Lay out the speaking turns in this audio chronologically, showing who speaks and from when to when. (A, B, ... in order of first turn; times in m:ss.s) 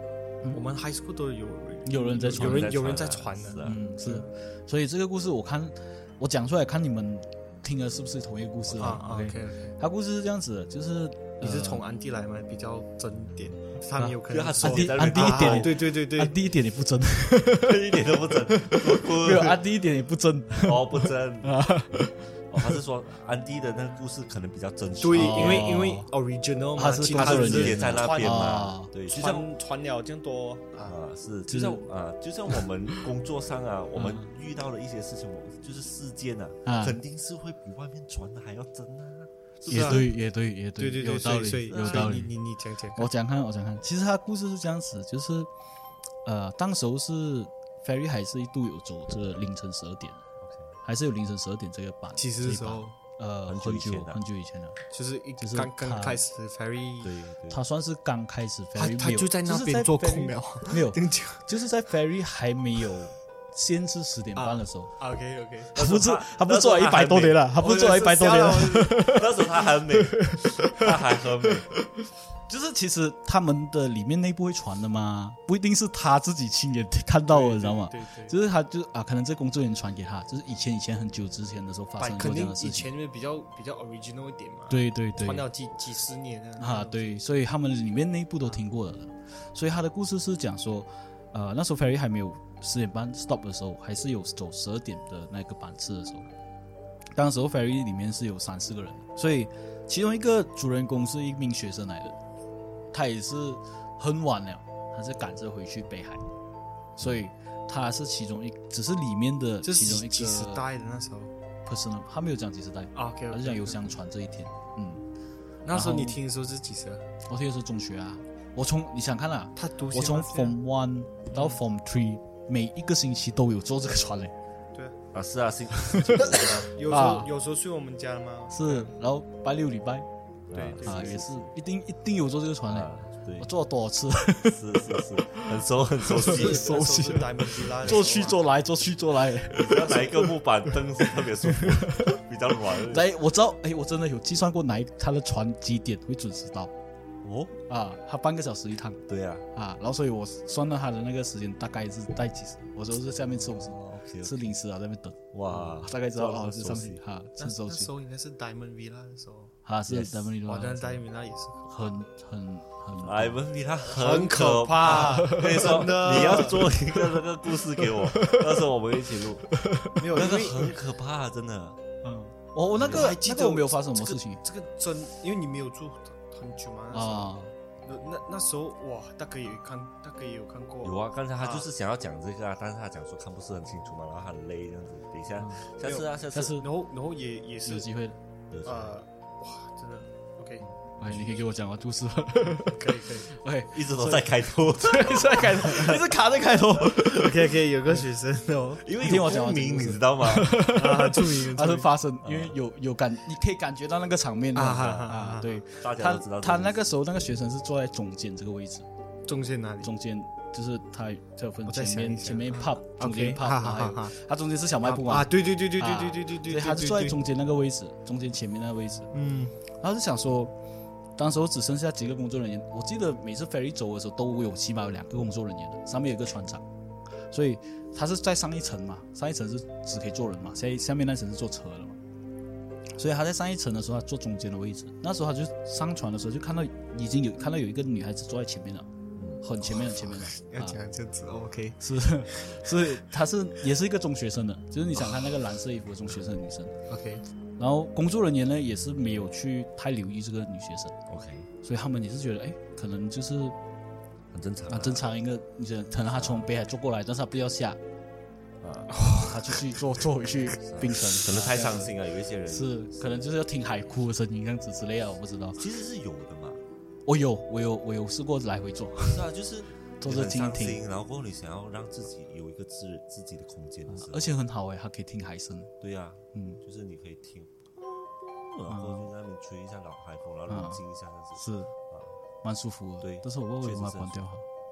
0:00.5-0:04.3 A
0:01.9-0:02.8 B
0:02.3-0:03.8 C
0:03.6-0:11.8 B
0:08.6-0:09.0 C
0:08.8-0:09.8 A
0:11.4-0:16.4 A
0:14.0-0:22.8 B
0:14.2-0:15.8 C
0:17.6-0:19.7 C
0:20.6-0:21.6 C
0:22.5-0:25.8 C
0:25.0-0:31.0 A
0:25.1-0:26.1 B
0:26.8-0:28.9 B
0:27.2-0:29.5 C
0:30.8-0:40.1 C
0:31.5-0:31.9 B
0:34.0-0:34.3 B
0:36.7-0:37.0 B
0:39.7-0:40.2 A
0:39.7-0:42.3 B
0:40.8-0:43.1 A
0:41.7-0:42.2 C
0:43.0-0:45.5 B
0:46.2-0:50.2 B
0:50.4-0:50.8 C
0:50.8-0:54.8 B
0:52.2-0:53.0 A
0:53.5-0:54.2 C
0:54.9-0:57.2 A
0:55.4-0:56.2 B
0:57.0-0:57.6 C
0:57.5-1:04.9 B
0:58.8-1:01.5 A
1:04.4-1:05.7 A
1:05.7-1:09.2 B
1:05.8-1:11.7 C
1:07.6-1:09.0 A
1:09.9-1:10.9 B
1:11.7-1:22.9 B
1:17.3-1:18.4 A
1:22.0-1:27.2 A
1:24.7-1:25.5 B
1:26.6-1:36.3 B
1:37.2-1:42.2 B
1:42.9-1:46.2 B
1:47.0-1:50.7 B
1:49.6-1:51.3 A
1:51.7-1:55.0 B
1:53.0-1:54.0 A
1:55.6-1:57.1 A
1:55.7-1:56.2 B
1:57.3-2:04.3 B
1:59.6-2:00.6 A
2:01.3-2:01.6 A
2:05.1-2:06.7 C
2:06.1-2:08.9 A
2:06.9-2:07.3 B
2:08.5-2:10.1 B
2:10.5-2:11.5 C
2:10.5-2:11.2 A
2:10.8-2:15.5 B
2:12.7-2:13.5 C
2:14.4-2:16.7 C
2:16.0-2:22.2 B
2:16.2-2:18.4 A
2:17.9-2:18.2 C
2:19.5-2:23.2 C
2:22.8-2:26.7 B
2:27.2-2:27.6 C
2:27.7-2:37.9 B
2:29.1-2:29.5 C
2:33.3-2:34.6 C
2:35.3-2:37.0 C
2:37.4-2:39.6 A
2:39.6-2:41.0 B
2:39.9-2:40.3 C
2:40.4-2:41.9 A
2:41.7-2:43.4 B
2:43.0-2:49.5 C
2:43.8-2:46.7 A
2:44.8-2:45.8 B
2:47.8-2:48.6 B
2:49.5-2:50.0 B
2:50.0-2:50.8 A
2:50.1-2:51.8 C
2:52.0-2:54.4 B
2:52.8-2:53.1 C
2:52.8-3:01.7 A
2:56.9-2:57.5 B
3:00.8-3:06.6 C
3:05.4-3:05.7 B
3:05.8-3:06.1 A
3:06.3-3:06.7 B
3:06.6-3:07.9 A
3:07.6-3:08.2 B
3:08.5-3:09.0 C
3:08.6-3:10.6 A
3:11.0-3:17.5 B
3:12.7-3:13.3 A
3:13.7-3:16.0 C
3:16.9-3:18.9 A
3:18.8-3:20.6 C
3:19.0-3:28.9 B
3:20.6-3:21.9 A
3:22.2-3:22.6 C
3:24.6-3:25.6 A
3:25.8-3:26.8 C
3:29.3-3:29.9 A
3:29.8-3:39.1 B
3:31.7-3:34.2 A
3:34.8-3:37.2 A
3:39.1-3:39.6 A
3:39.7-3:40.5 B
3:41.2-3:46.6 B
3:47.2-3:52.0 B
3:53.0-3:58.9 B
3:59.2-3:59.4 C
3:59.4-4:00.8 B
3:59.6-4:02.8 A
4:01.8-4:06.8 B
4:06.9-4:07.2 A
4:07.6-4:11.0 B
4:11.1-4:11.5 C
4:11.6-4:13.6 B
4:14.3-4:15.1 C
4:14.7-4:17.8 B
4:16.1-4:16.5 C
4:18.6-4:19.0 C
4:18.9-4:19.6 A
4:19.1-4:21.9 B
4:20.5-4:23.3 C
4:22.5-4:25.6 B
4:25.6-4:26.6 C
4:27.1-4:29.2 B
4:29.1-4:34.4 C
4:30.0-4:30.8 B
4:33.9-4:35.7 B
4:35.8-4:42.2 C
4:36.3-4:36.6 B
4:38.7-4:39.1 B
4:40.5-4:40.8 B
4:41.4-4:41.7 B
4:42.4-4:44.5 B
4:43.0-4:44.2 C